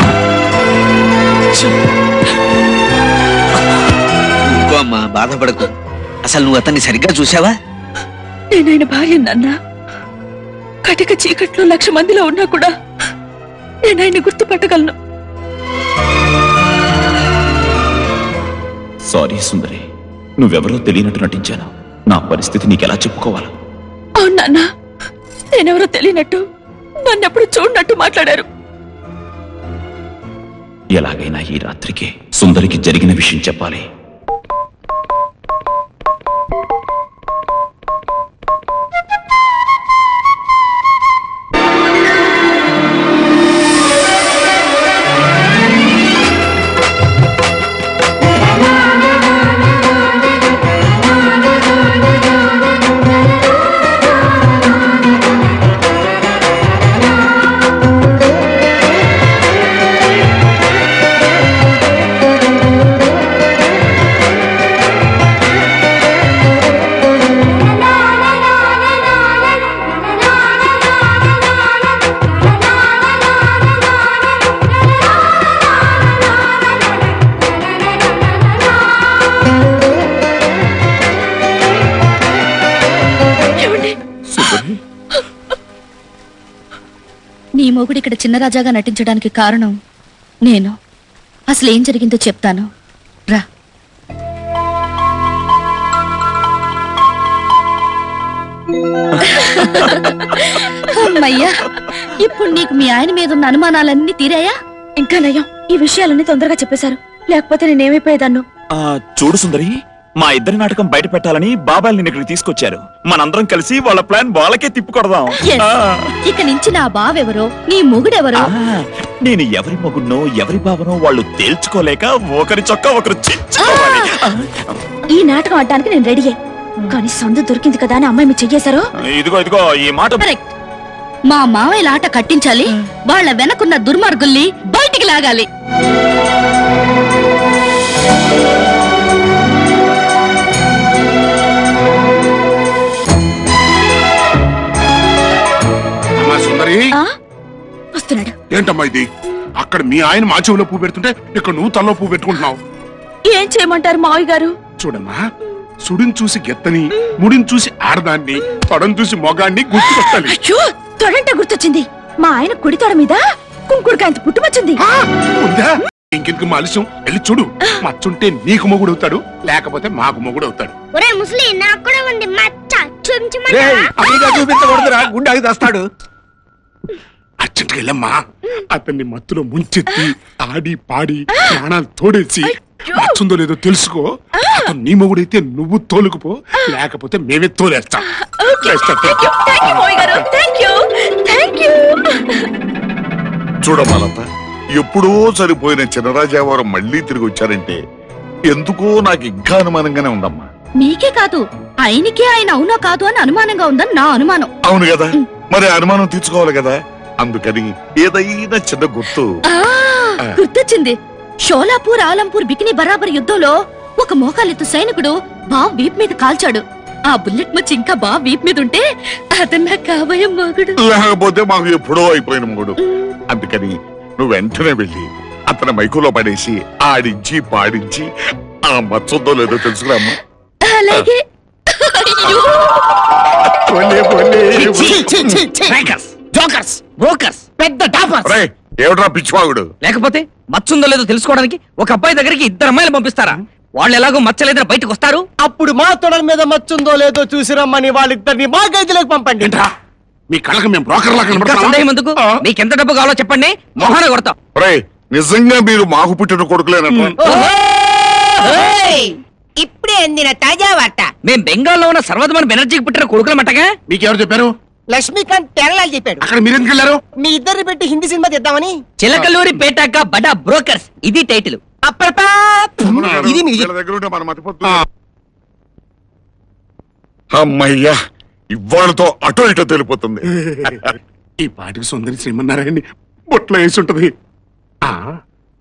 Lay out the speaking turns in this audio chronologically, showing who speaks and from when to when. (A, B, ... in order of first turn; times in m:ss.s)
0:04.5-0:05.7 A
0:06.2-0:07.6 A
0:08.5-0:09.6 B
0:10.9-0:12.7 B
0:13.9-0:15.0 B
0:19.1-0:19.8 C
0:20.4-0:23.5 C
0:24.2-0:24.7 B
0:25.5-0:26.4 B
0:27.0-0:28.5 B
0:31.0-0:33.8 C
1:24.4-1:24.8 D
1:27.6-1:29.8 E
1:30.4-1:30.8 E
1:31.5-1:32.7 E
1:39.3-1:40.1 C
1:40.8-1:44.6 E
1:45.0-1:48.4 B
1:48.8-1:56.2 C
1:56.2-1:58.5 E
1:58.4-2:04.7 C
2:05.1-2:06.4 B
2:06.9-2:08.9 B
2:09.1-2:10.3 C
2:11.3-2:15.5 E
2:26.2-2:26.9 D
2:28.0-2:28.4 B
2:28.5-2:29.1 D
2:29.6-2:32.6 D
2:33.3-2:34.6 B
2:34.8-2:35.2 D
2:35.8-2:40.4 D
2:39.9-2:44.8 B
2:44.8-2:50.8 D
2:51.0-2:53.9 F
2:54.0-2:55.3 D
2:57.4-3:08.0 D
3:08.2-3:12.4 B
3:08.6-3:10.2 D
3:13.6-3:14.2 G
3:14.8-3:17.8 G
3:18.5-3:20.5 G
3:20.8-3:24.5 E
3:24.6-3:29.3 G
3:29.5-3:40.8 E
3:40.8-3:42.8 G
3:43.3-3:48.1 G
3:48.6-3:50.2 G
3:50.7-3:51.2 E
3:51.8-3:52.6 E
3:53.7-3:55.0 D
3:54.6-3:56.1 H
3:54.6-3:55.4 G
3:54.9-3:56.8 I
3:57.0-3:57.4 H
3:57.6-3:58.4 I
3:58.2-3:59.7 G
3:59.8-4:05.3 H
4:05.4-4:09.6 I
4:09.4-4:09.7 D
4:10.3-4:12.4 D
4:11.3-4:14.4 H
4:14.6-4:17.1 G
4:16.9-4:17.2 D
4:17.2-4:17.6 I
4:17.2-4:17.5 H
4:18.4-4:21.1 I
4:18.5-4:18.7 H
4:21.2-4:23.7 H
4:23.9-4:24.5 D
4:24.9-4:26.3 I
4:26.2-4:27.0 D
4:27.2-4:28.8 I
4:29.0-4:31.6 H
4:31.8-4:33.7 I
4:32.9-4:34.8 G
4:37.3-4:38.0 G
4:38.5-4:40.9 G
4:40.4-4:40.8 D
4:41.4-4:44.1 D
4:44.8-4:45.2 D